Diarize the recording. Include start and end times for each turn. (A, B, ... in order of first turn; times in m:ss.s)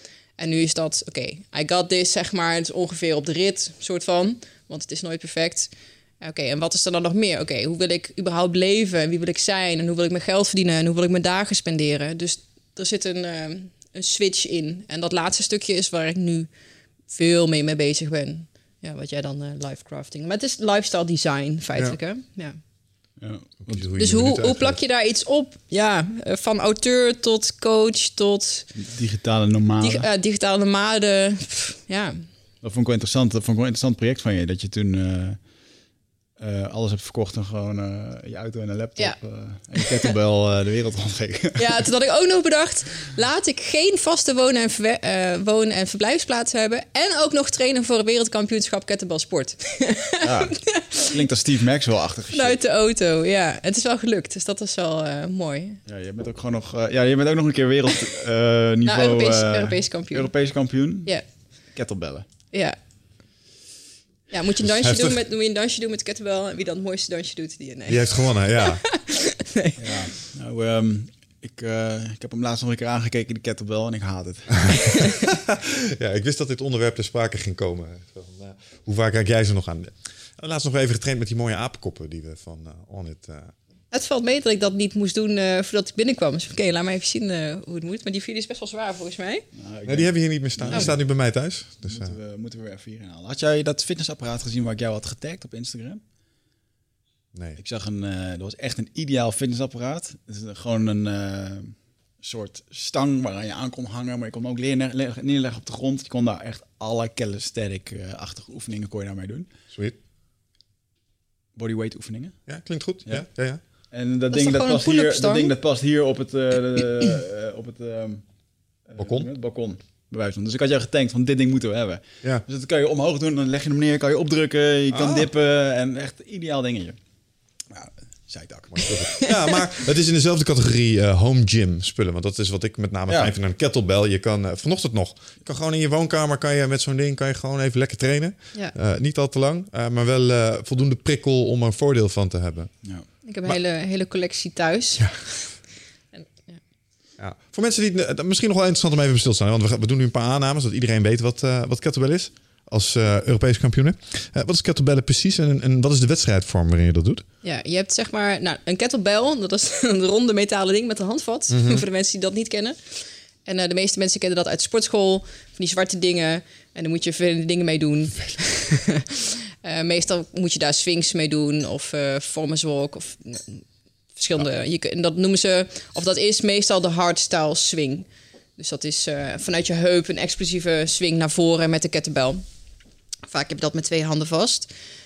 0:00.4-0:16.5 A
0:17.1-0:22.6 A
0:23.2-0:23.9 B
0:23.6-0:24.8 C
0:24.0-0:28.7 A
0:28.8-0:30.1 B
0:29.8-0:32.3 A
0:32.6-0:35.4 B
0:36.4-0:41.8 B
0:39.7-0:40.1 A
0:41.6-0:51.2 A
0:50.2-0:52.6 B
0:52.3-0:55.8 A
0:55.9-1:01.2 B
0:58.8-1:00.3 A
1:01.7-1:02.3 B
1:02.5-1:02.8 A
1:04.3-1:10.0 A
1:04.6-1:05.2 C
1:07.9-1:08.8 C
1:09.8-1:15.0 B
1:15.3-1:23.5 C
1:23.9-1:29.5 A
1:29.5-1:31.0 B
1:29.9-1:32.2 C
1:31.8-1:36.0 B
1:37.3-1:37.6 C
1:37.6-1:49.5 B
1:49.7-1:50.0 C
1:51.6-1:52.5 B
1:52.5-1:53.6 C
1:53.0-1:58.2 B
1:54.3-1:55.5 A
1:58.8-2:07.0 B
1:59.0-1:59.3 C
2:04.9-2:05.3 C
2:07.7-2:09.0 B
2:08.7-2:22.9 C
2:13.1-2:13.3 B
2:23.2-2:25.6 A
2:26.1-2:26.6 A
2:27.2-2:37.2 C
2:37.4-2:53.6 A
2:41.5-2:41.8 C
2:54.2-2:58.1 A
2:58.6-3:02.4 A
3:03.3-3:04.7 A